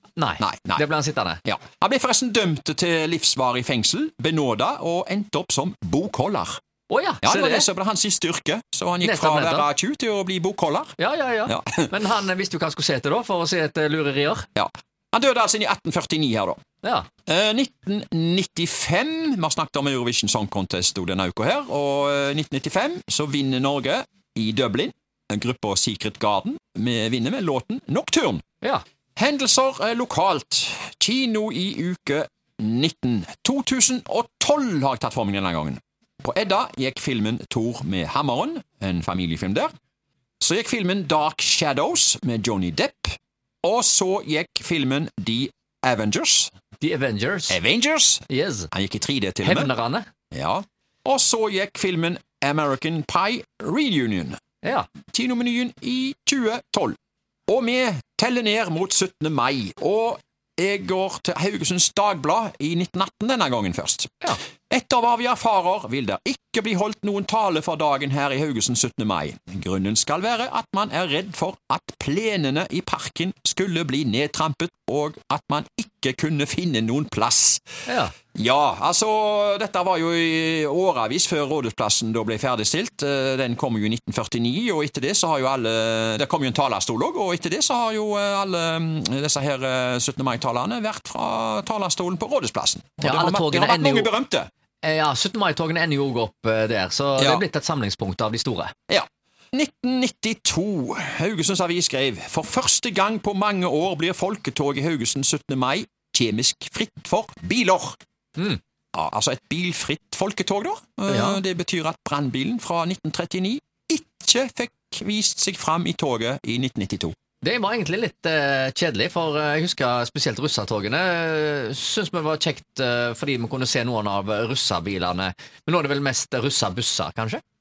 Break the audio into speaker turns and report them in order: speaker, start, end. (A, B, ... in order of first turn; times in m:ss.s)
0:00.2-0:01.4 A
0:00.4-0:00.8 B
0:01.4-0:06.6 B
0:06.9-0:07.6 A
0:07.2-0:10.9 B
0:09.0-0:09.6 A
0:11.0-0:14.5 A
0:11.5-0:11.9 B
0:14.6-0:16.6 B
0:16.8-0:17.1 A
0:17.3-0:28.4 B
0:29.2-0:39.7 B
0:40.4-0:46.5 B
0:46.8-0:47.6 A
0:47.5-0:49.7 B
0:48.3-0:48.7 A
0:49.4-0:50.1 A
0:50.3-0:54.4 B
0:54.6-0:54.9 A
0:55.1-0:57.0 B
0:57.5-1:17.7 B
1:17.9-1:18.1 A
1:18.3-1:34.5 B
1:33.0-1:34.1 A
1:34.8-1:38.7 A
1:37.2-1:37.4 B
1:38.9-1:48.0 B
1:48.9-1:57.1 B
1:51.1-1:51.4 A
1:57.4-2:07.4 A